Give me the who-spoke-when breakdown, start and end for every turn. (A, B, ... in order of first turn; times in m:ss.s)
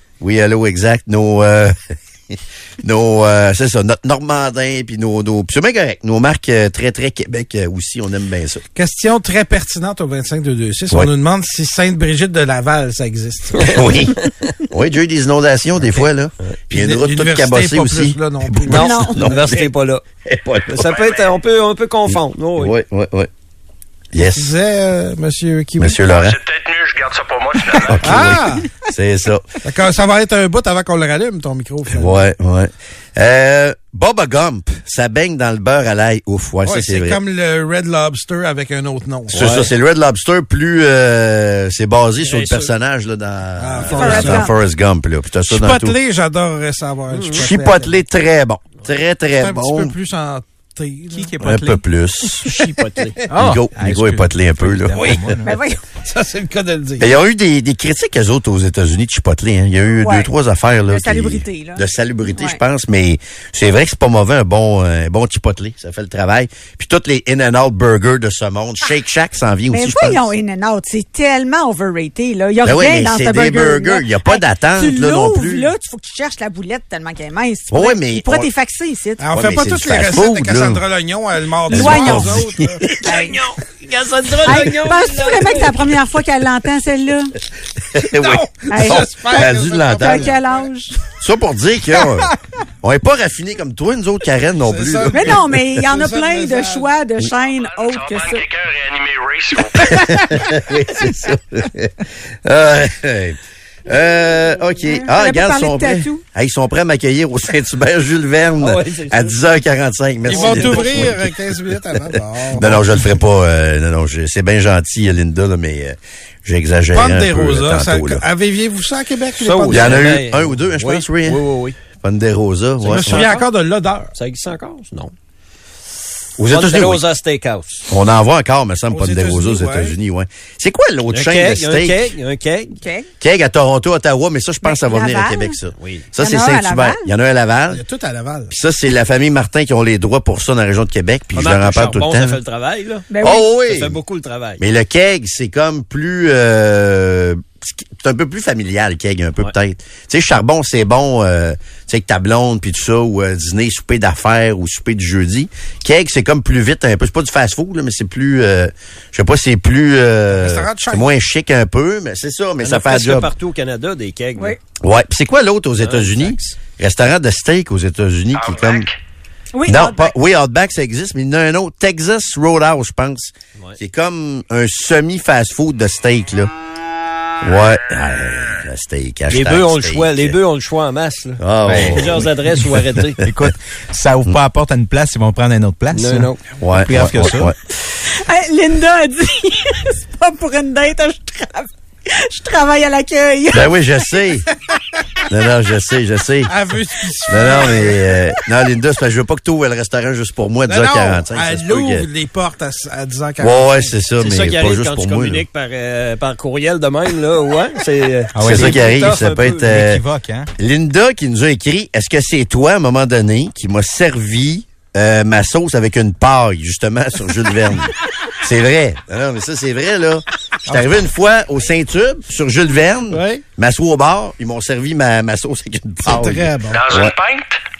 0:00.2-0:08.6 A
0:08.8-0:13.9 B
0:13.6-0:19.7 A
0:16.7-0:18.9 B
0:18.7-0:20.0 C
0:18.7-0:19.4 D
0:20.2-0:20.9 A
0:20.7-0:22.7 C
0:20.8-0:21.4 E
0:22.6-0:23.3 A
0:24.1-0:24.5 A
0:24.3-0:26.0 B
0:25.8-0:26.4 A
0:26.1-0:28.1 E
0:27.8-0:29.5 A
0:28.0-0:28.7 B
0:29.6-0:32.2 B
0:31.9-0:37.2 A
0:36.6-0:39.6 B
0:39.3-0:46.0 A
0:39.3-0:39.7 C
0:42.2-0:42.7 C
0:43.6-0:44.5 B
0:43.9-0:44.5 D
0:45.5-0:48.0 B
0:47.1-0:47.4 C
0:47.3-0:49.9 A
0:49.4-0:51.4 B
0:51.1-0:51.8 F
0:51.4-0:52.5 A
0:52.4-0:53.2 C
0:53.3-0:55.6 F
0:53.4-0:55.4 A
0:55.0-0:57.1 B
0:55.4-0:55.8 D
0:57.0-1:10.3 A
1:00.0-1:00.3 D
1:00.9-1:02.6 D
1:09.7-1:19.3 D
1:12.6-1:15.7 A
1:17.7-1:18.5 A
1:19.2-1:22.8 B
1:19.3-1:20.8 A
1:21.7-1:22.4 D
1:21.7-1:23.0 A
1:23.0-1:25.9 C
1:23.0-1:23.4 D
1:24.4-1:27.3 D
1:27.9-1:30.4 A
1:28.0-1:30.6 B
1:28.7-1:31.0 D
1:31.2-1:35.4 A
1:34.6-1:36.9 B
1:35.1-1:38.4 D
1:37.6-1:40.0 E
1:39.8-1:51.3 A
1:44.8-1:46.2 D
1:48.6-1:49.4 C
1:50.3-1:51.1 C
1:50.3-1:53.0 B
1:52.5-1:58.2 A
1:56.9-2:00.1 B
1:59.4-2:01.8 C
1:59.7-2:01.4 A
2:02.0-2:03.3 A
2:02.8-2:04.1 B
2:02.9-2:03.4 C
2:04.2-2:05.1 C
2:06.4-2:07.0 A
2:06.5-2:07.8 C
2:07.9-2:12.1 A
2:08.9-2:10.0 B
2:11.1-2:12.8 C
2:12.8-2:13.1 D
2:13.2-2:17.8 A
2:14.6-2:15.6 D
2:15.8-2:16.1 C
2:16.2-2:17.1 D
2:17.7-2:18.5 B
2:18.5-2:22.4 A
2:21.3-2:24.6 C
2:23.1-2:23.5 D
2:23.2-2:24.0 A
2:24.6-2:43.3 A
2:40.3-2:41.1 B
2:42.6-2:44.6 C
2:44.8-2:48.9 A
2:45.8-2:46.6 C
2:48.3-2:49.0 E
2:49.5-2:50.2 D
2:49.7-2:56.5 A
2:57.4-3:00.4 A
2:59.3-3:03.2 C
3:01.4-3:02.3 A
3:01.7-3:02.2 F
3:03.2-3:07.5 F
3:05.9-3:06.4 C
3:06.6-3:07.6 A
3:08.1-3:13.7 D
3:13.5-3:14.5 A
3:15.3-3:16.5 A
3:16.5-3:18.1 B
3:17.3-3:22.1 A
3:20.7-3:24.0 B
3:23.4-3:25.4 A
3:24.2-3:29.7 C
3:28.4-3:28.8 F
3:28.4-3:30.0 A
3:29.7-3:30.5 F
3:30.6-3:47.2 A
3:40.7-3:41.0 B
3:43.1-3:43.4 B
3:46.0-3:46.9 B
3:46.7-3:47.6 E